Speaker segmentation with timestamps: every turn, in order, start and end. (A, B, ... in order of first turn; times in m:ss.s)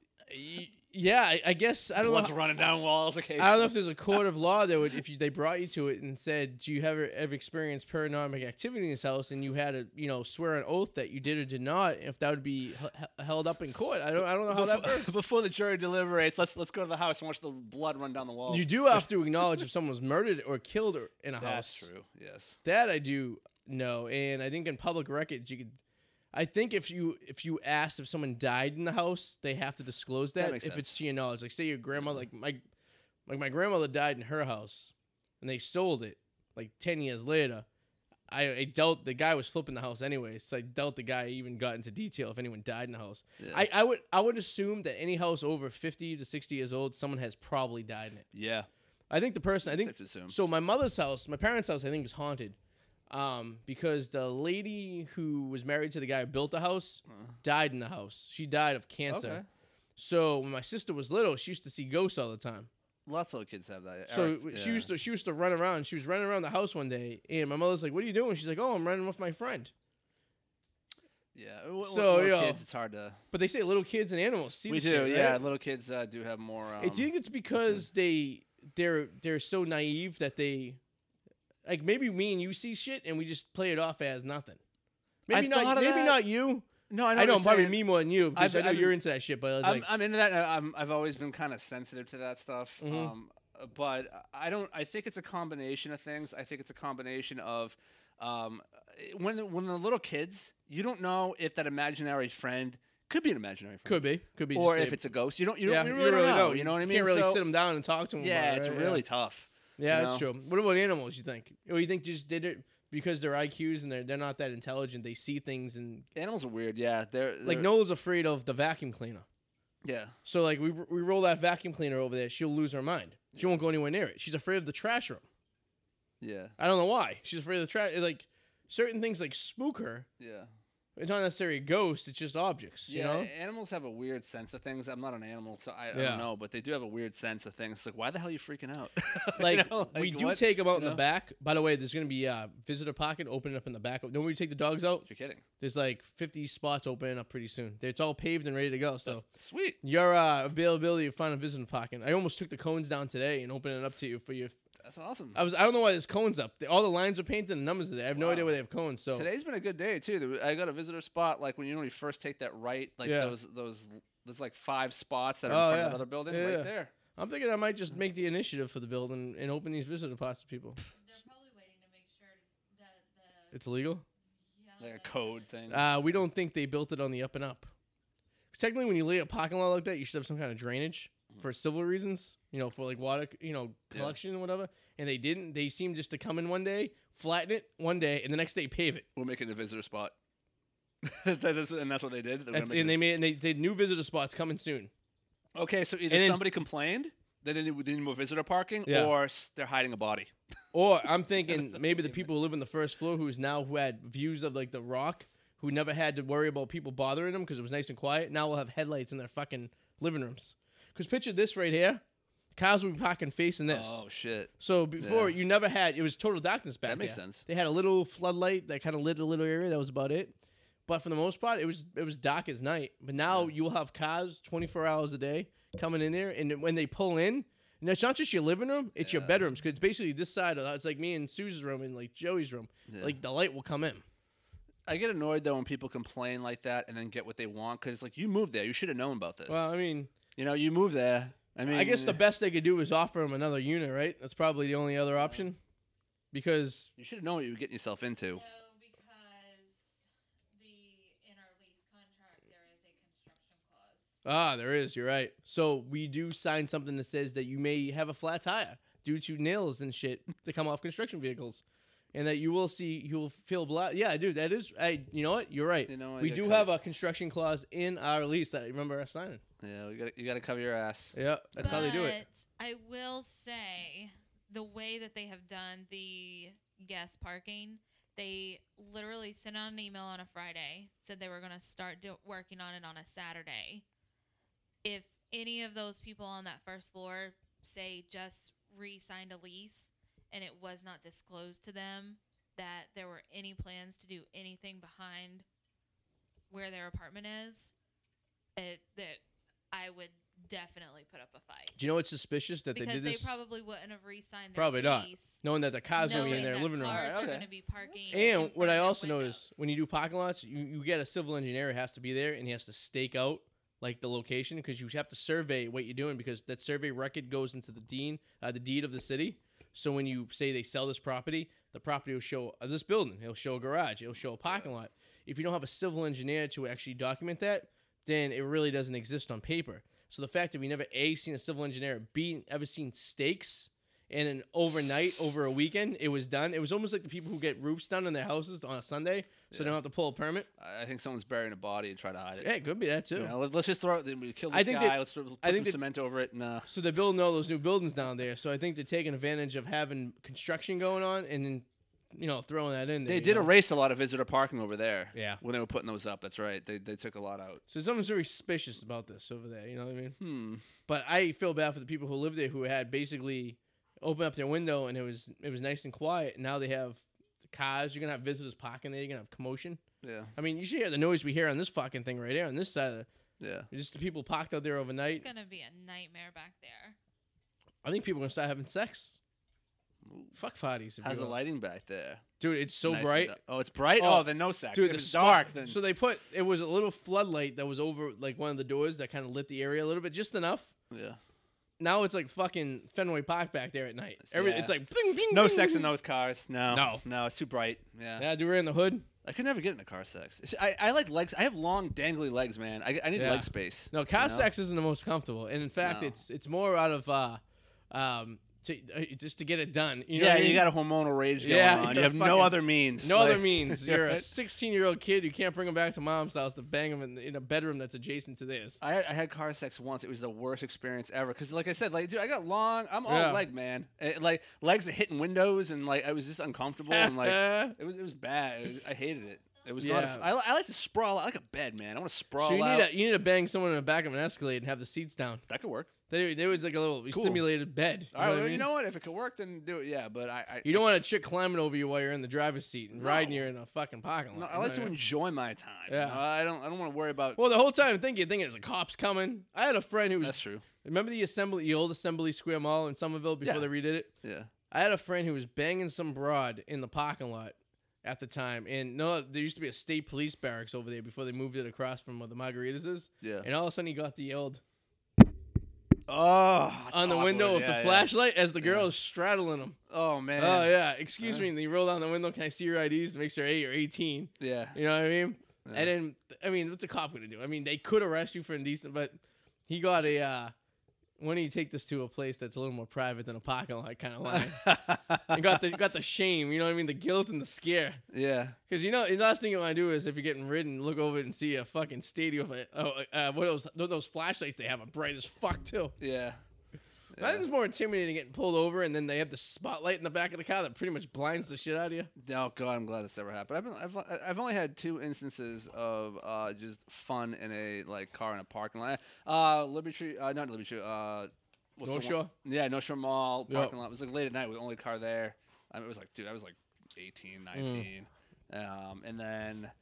0:00.3-0:02.3 A
0:02.0-0:04.2 B
0:03.4-0:15.2 A
0:14.5-0:19.0 B
0:18.5-0:21.9 A
0:21.4-0:22.6 B
0:22.6-0:25.8 A
0:26.3-0:32.6 A
0:30.4-0:31.0 B
0:33.3-0:37.6 A
0:38.3-0:48.2 A
0:43.4-0:43.7 B
0:48.3-0:48.7 B
0:49.1-0:52.6 A
0:49.6-0:50.4 B
0:53.1-0:59.4 A
0:59.1-0:59.4 B
1:00.0-1:02.7 A
1:03.0-1:04.9 B
1:04.1-1:09.7 A
1:11.3-1:13.2 B
1:11.8-1:12.6 A
1:13.3-1:15.4 A
1:14.7-1:17.8 B
1:16.8-1:20.8 A
1:21.6-1:24.6 A
1:25.3-1:29.9 A
1:25.3-1:26.2 B
1:26.9-1:29.0 B
1:29.6-1:47.4 B
1:32.8-1:33.1 A
1:43.8-1:45.0 A
1:45.6-1:49.0 A
1:48.2-1:50.3 B
1:49.8-1:56.0 A
1:56.1-1:57.7 B
1:57.4-1:59.2 A
1:59.8-2:00.1 B
2:00.2-2:05.2 A
2:03.3-2:03.6 B
2:06.2-2:06.5 B
2:06.6-2:10.1 A
2:10.2-2:10.5 B
2:11.0-2:13.3 A
2:12.9-2:21.0 B
2:15.9-2:16.3 A
2:19.4-2:25.0 A
2:25.0-2:25.4 B
2:25.6-2:29.2 A
2:29.0-2:29.8 B
2:29.8-2:34.6 A
2:34.8-2:35.4 B
2:35.3-2:39.3 A
2:38.1-2:38.5 B
2:39.1-2:46.9 B
2:43.0-2:43.3 A
2:45.5-2:50.8 A
2:50.9-2:53.6 C
2:53.5-2:54.0 A
2:54.4-2:55.4 C
2:54.8-2:55.9 B
2:55.7-2:57.7 A
2:58.5-3:09.1 A
3:09.2-3:10.1 B
3:11.0-3:13.0 B
3:12.5-3:14.9 A
3:15.5-3:20.3 B
3:16.1-3:16.4 A
3:18.8-3:19.1 A
3:20.7-3:32.0 A
3:32.5-3:34.0 A
3:33.7-3:35.4 B
3:34.6-3:40.3 A
3:36.8-3:37.4 B
3:40.9-3:54.0 A
3:49.0-3:49.4 B
3:52.9-3:53.1 B
3:54.8-3:59.7 B
3:59.5-4:00.1 A
4:00.4-4:02.2 B
4:01.6-4:05.6 A
4:05.2-4:05.4 B
4:06.3-4:06.9 A
4:07.0-4:08.4 B
4:08.3-4:14.1 C
4:14.2-4:21.6 A
4:22.1-4:29.4 A
4:25.9-4:26.7 B
4:29.6-4:32.0 B
4:31.1-4:32.2 A
4:31.6-4:43.8 C
4:44.8-4:55.4 C
4:56.5-4:57.7 C
4:58.6-4:59.2 C
4:59.7-5:01.8 C
5:01.8-5:03.3 A
5:02.7-5:05.4 C
5:04.5-5:07.1 A
5:05.9-5:09.6 C
5:06.1-5:07.5 B
5:08.1-5:40.5 A
5:39.5-5:39.8 B
5:40.6-5:42.5 B
5:42.4-5:43.4 A
5:43.1-5:46.7 B
5:44.5-5:45.8 A
5:46.7-5:53.5 A
5:53.0-5:57.6 B
5:55.1-5:55.4 A
5:57.7-6:00.2 A
6:00.2-6:00.6 B
6:00.8-6:09.8 A
6:10.0-6:10.3 B
6:10.4-6:13.1 A
6:13.4-6:13.7 B
6:13.7-6:15.3 A
6:15.2-6:17.0 C
6:17.8-6:19.2 A
6:20.0-6:20.3 B
6:20.3-6:21.4 A
6:21.0-6:22.2 B
6:22.4-6:23.4 A
6:22.8-6:25.8 B
6:24.0-6:30.7 A
6:30.9-6:31.2 B
6:31.8-6:35.9 A
6:34.2-6:34.7 B
6:35.3-6:38.3 B
6:36.7-6:37.0 A
6:38.2-6:39.1 A
6:39.2-6:44.5 B
6:43.2-6:50.7 A
6:45.8-6:46.2 B
6:50.1-6:54.3 B
6:51.4-6:58.8 A
6:58.8-7:12.9 B
7:03.0-7:03.4 A
7:06.9-7:07.7 A
7:09.8-7:10.3 A
7:12.4-7:15.4 A
7:15.5-7:15.9 B
7:16.1-7:18.7 A
7:17.1-7:17.4 B
7:18.1-7:20.9 B
7:20.6-7:25.0 A
7:22.9-7:23.5 B
7:24.3-7:27.4 B
7:25.9-7:26.2 A
7:27.4-7:34.1 A
7:30.2-7:30.6 B
7:33.4-7:33.7 B
7:34.2-7:34.5 B
7:34.7-7:44.6 A
7:43.2-7:43.5 B
7:46.1-7:48.9 B
7:46.9-7:49.8 A
7:49.9-7:51.5 B
7:50.4-8:00.5 A
7:54.4-7:54.8 B
7:55.6-7:55.9 B
8:01.2-8:04.8 A
8:04.3-8:05.5 B
8:05.3-8:08.0 A
8:08.1-8:08.6 B
8:08.7-8:15.9 A
8:16.0-8:16.4 B
8:17.1-8:17.4 B
8:17.2-8:22.1 A
8:22.2-8:39.7 B
8:31.8-8:32.3 A
8:33.5-8:33.7 A
8:37.5-8:37.9 A